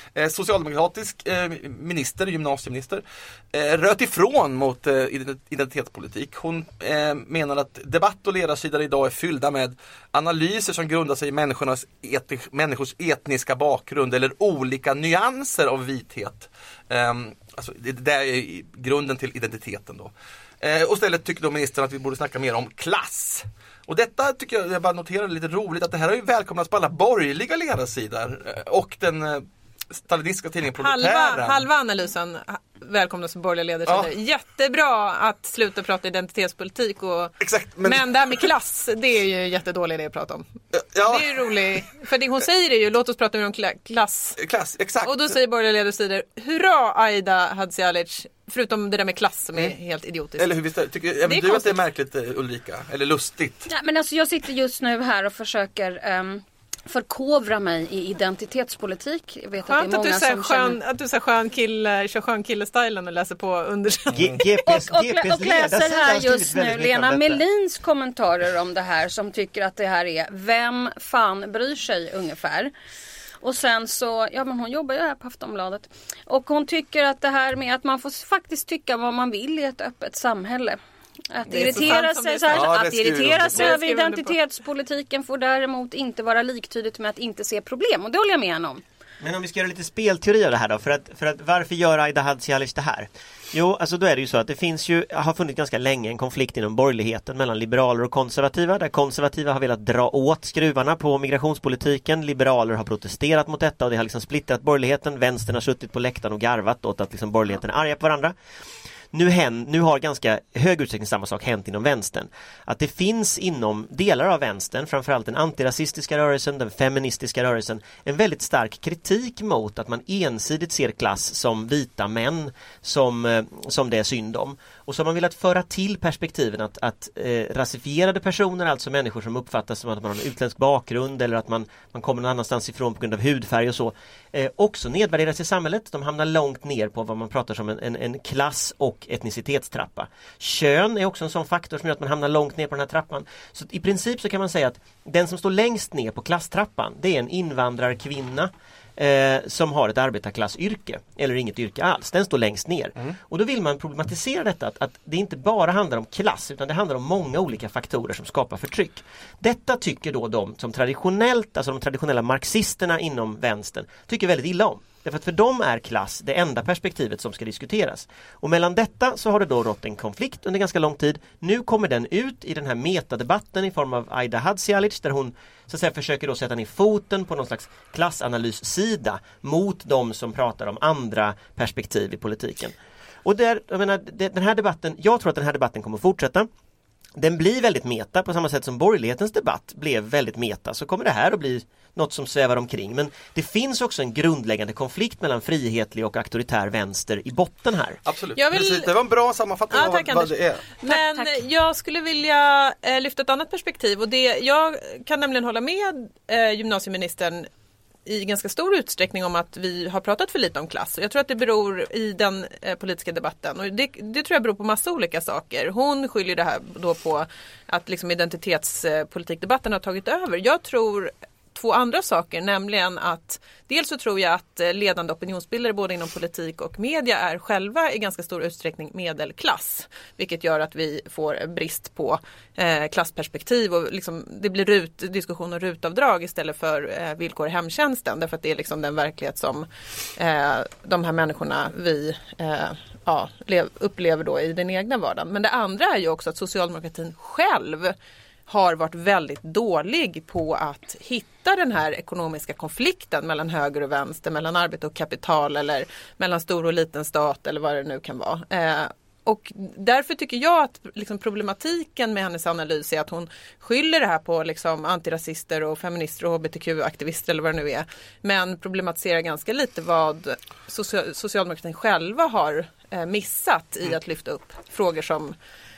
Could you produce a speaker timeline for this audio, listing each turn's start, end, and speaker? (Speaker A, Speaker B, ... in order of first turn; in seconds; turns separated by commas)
Speaker A: 0.1-31.6, Speaker B: 30.8-40.4, Speaker A: 37.4-38.4, Speaker A: 40.7-41.8, Speaker B: 41.0-44.4, Speaker A: 44.4-45.3, Speaker B: 45.0-50.5, Speaker A: 50.4-53.7, Speaker B: 51.2-51.8, Speaker C: 53.7-60.8, Speaker B: 59.6-64.6, Speaker D: 64.1-67.4, Speaker C: 64.6-72.7, Speaker C: 73.4-80.8, Speaker C: 81.3-88.8, Speaker B: 81.5-82.8, Speaker A: 82.5-83.8, Speaker B: 83.5-84.3, Speaker D: 89.2-108.3, Speaker D: 109.1-186.5, Speaker D: 187.2-198.0, Speaker A: 198.1-200.7, Speaker B: 198.3-198.9, Speaker B: 199.7-207.5, Speaker C: 200.8-201.4, Speaker B: 208.1-247.9, Speaker B: 248.5-275.3